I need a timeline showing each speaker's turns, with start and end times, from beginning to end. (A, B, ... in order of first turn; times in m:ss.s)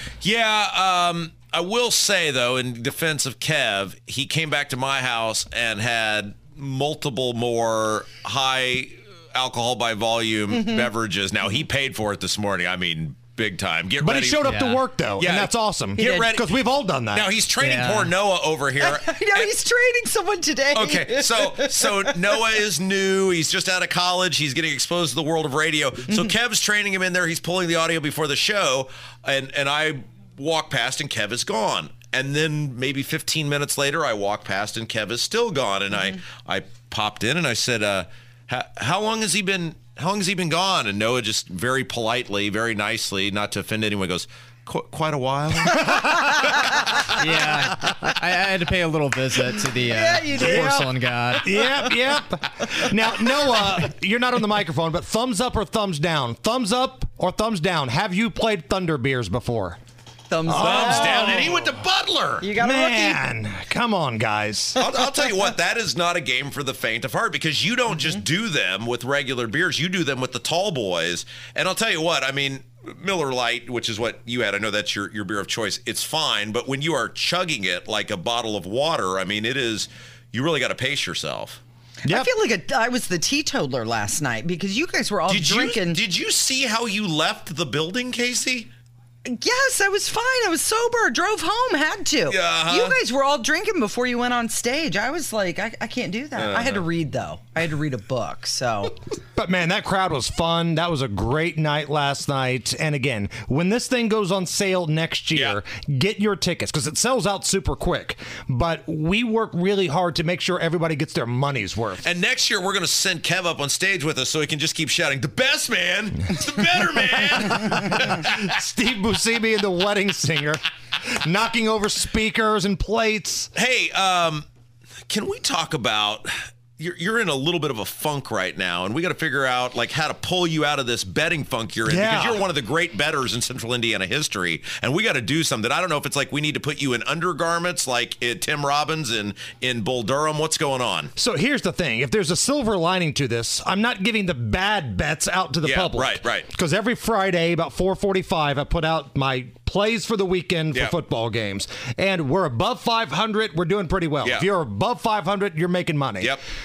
0:00.2-0:14.4 A
0:10.5-0:10.8 B
0:14.0-0:17.3 C
0:14.4-0:14.8 D
0:15.2-0:16.6 A
0:17.1-0:19.5 A
0:17.6-0:18.1 D
0:18.8-0:22.1 B
0:20.7-0:47.3 A
0:47.2-0:51.7 D
0:49.9-0:50.6 B
0:50.5-0:50.9 C
0:51.4-0:59.8 C
1:00.3-1:01.5 B
1:00.4-1:01.5 C
1:00.6-1:02.5 A
1:02.4-1:03.2 B
1:02.6-1:04.8 C
1:04.8-1:21.6 A
1:22.0-1:26.0 B
1:22.0-1:22.3 C
1:25.3-1:28.7 A
1:29.2-1:38.9 B
1:32.3-1:33.0 A
1:36.4-1:36.8 A
1:39.4-1:52.0 C
1:52.0-1:58.2 A
1:58.1-2:03.5 C
2:03.5-2:04.4 A
2:05.1-2:21.1 A
2:11.8-2:12.4 C
2:21.2-2:36.4 C
2:25.6-2:26.5 A
2:34.2-2:34.5 A